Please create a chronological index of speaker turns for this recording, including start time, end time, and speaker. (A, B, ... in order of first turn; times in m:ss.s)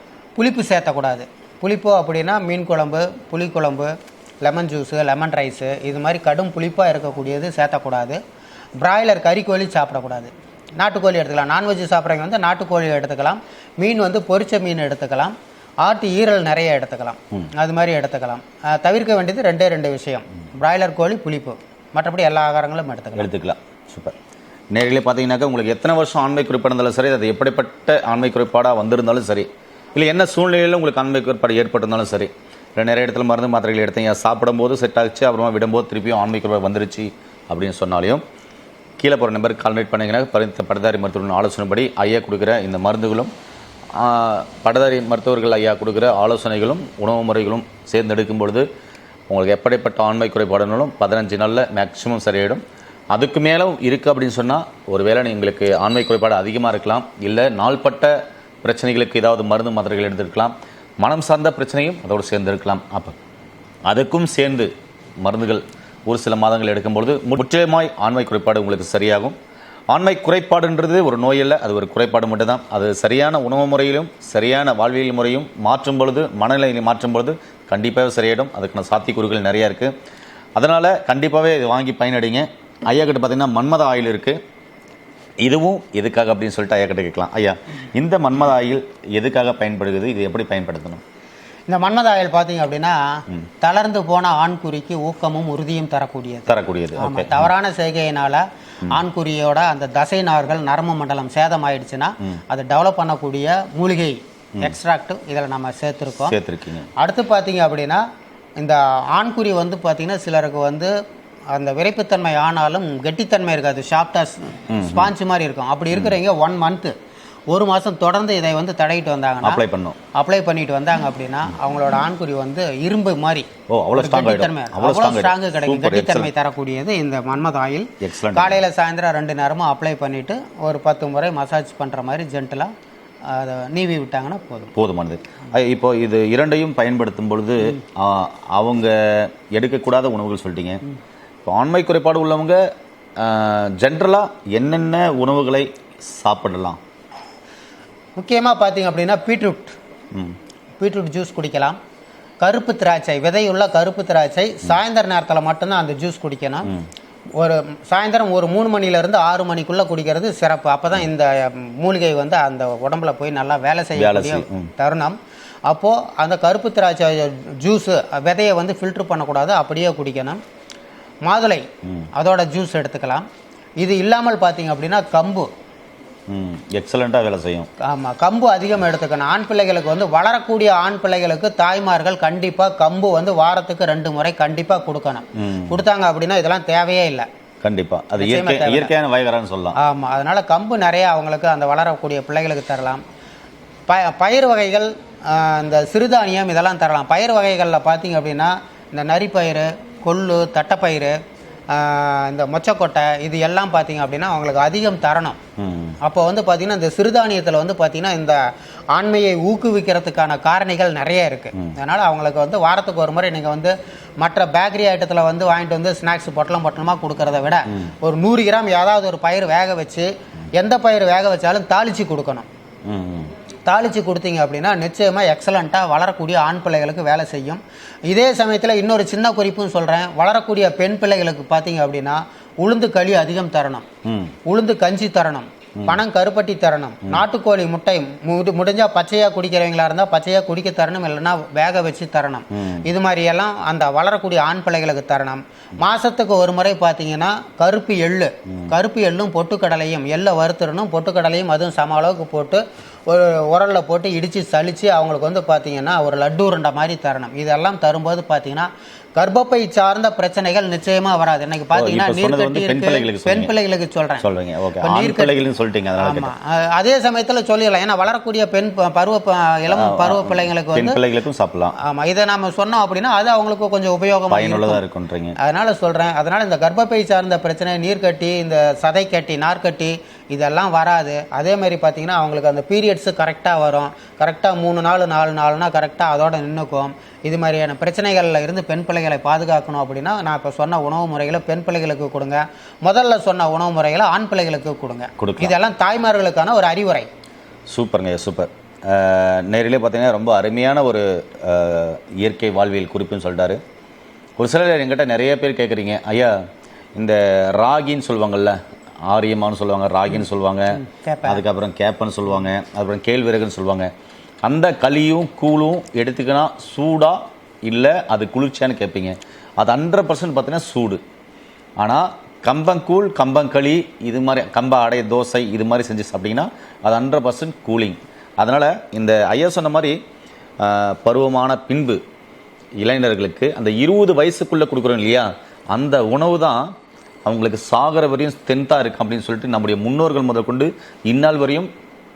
0:00.4-0:08.2 A
0:08.8-0:23.3 A
0:23.2-0:24.1 B
0:24.7-0:38.2 B
0:39.0-0:43.3 B
0:43.9-0:48.7 B
0:49.3-1:03.2 B
1:03.8-1:04.7 B
1:05.2-1:09.4 B
1:09.9-1:19.9 B
1:20.6-1:24.4 B
1:25.4-1:31.0 B
1:31.7-1:46.4 A
1:36.5-1:37.5 B
1:46.1-1:46.9 B
1:47.0-1:48.0 A
1:48.6-1:50.9 A
1:51.5-1:56.9 A
1:54.7-1:55.1 B
1:57.5-1:59.6 A
1:59.4-2:00.0 B
2:00.1-2:12.7 A
2:03.7-2:06.3 B
2:08.0-2:08.6 B
2:13.3-2:14.7 A
2:14.8-2:20.8 B
2:21.4-2:22.6 B
2:23.2-2:26.8 B
2:28.2-2:29.8 A
2:30.8-2:31.8 A
2:32.4-2:36.7 A
2:37.4-2:50.4 A
2:44.0-2:44.7 B
2:51.2-2:53.2 A
2:51.8-2:52.1 B
2:53.8-2:55.5 A
2:56.3-2:57.7 B
2:57.8-3:07.3 A
3:05.4-3:05.8 B
3:07.6-3:09.8 B
3:08.2-3:08.9 A
3:09.8-3:13.0 A
3:13.9-3:21.2 A
3:21.7-3:25.4 A
3:25.6-3:26.0 B
3:26.0-3:28.4 A
3:28.9-3:42.5 A
3:42.8-3:43.3 B
3:43.6-3:53.8 A
3:54.0-3:54.3 B
3:54.4-4:24.2 A
4:02.5-4:02.9 B
4:21.7-4:23.5 B
4:24.2-4:26.3 B
4:24.8-4:25.4 A
4:26.0-4:31.0 A
4:29.7-4:31.7 B
4:31.8-4:34.8 A
4:34.3-4:35.3 B
4:35.4-4:57.1 A
4:55.2-4:55.5 B
4:57.7-5:03.6 B
5:04.4-5:06.4 B
5:07.0-5:13.9 B
5:10.7-5:11.4 A
5:14.4-5:21.0 B
5:21.8-5:30.0 B
5:30.6-5:32.0 B
5:32.8-5:36.7 B
5:37.2-5:41.7 B